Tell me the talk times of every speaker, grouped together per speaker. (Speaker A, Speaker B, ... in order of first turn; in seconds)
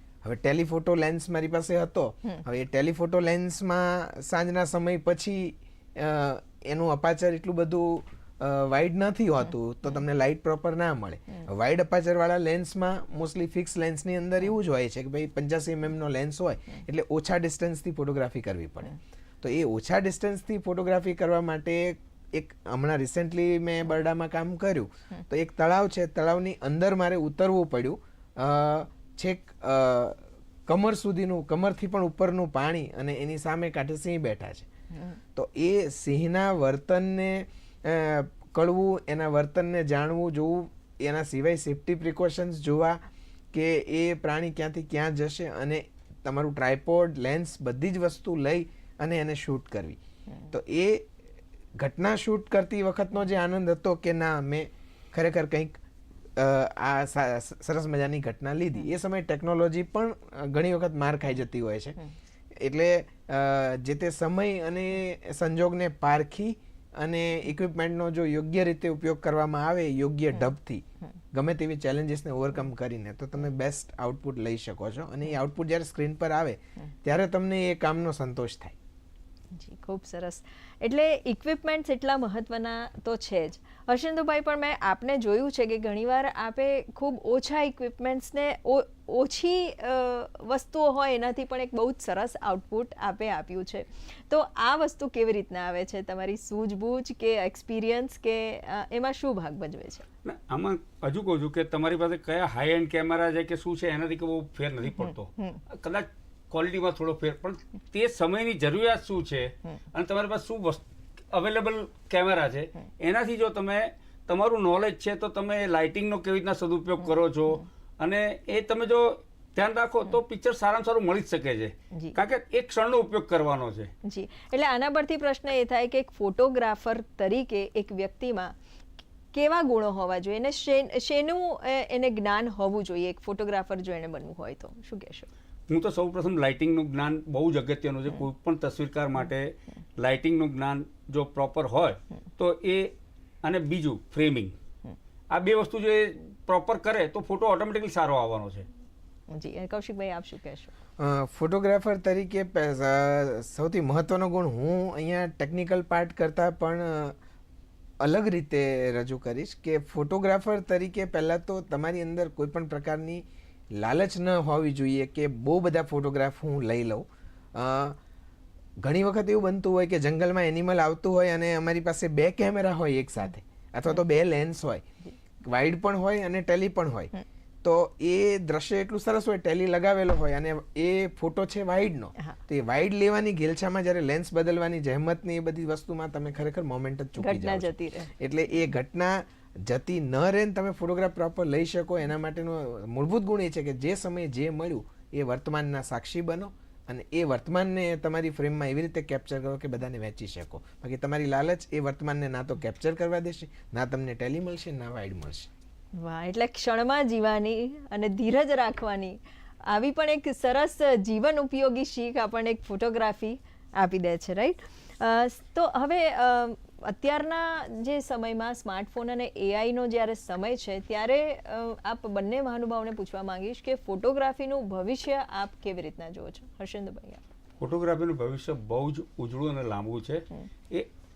Speaker A: 0.2-34.7, 35.4-43.0, 43.5-51.1, 51.8-55.8, 56.4-62.0, 62.6-78.8, 151.0-157.2, 158.0-168.0, 168.8-174.9, 175.4-177.1, 177.6-205.5
Speaker B: 79.5-100.0, 105.0-105.6, 124.0-128.6, 129.3-135.3, 149.3-150.7, 187.2-188.1, 206.0-227.2
Speaker C: 100.2-123.9, 135.7-144.5, 145.3-148.7, 227.6-230.9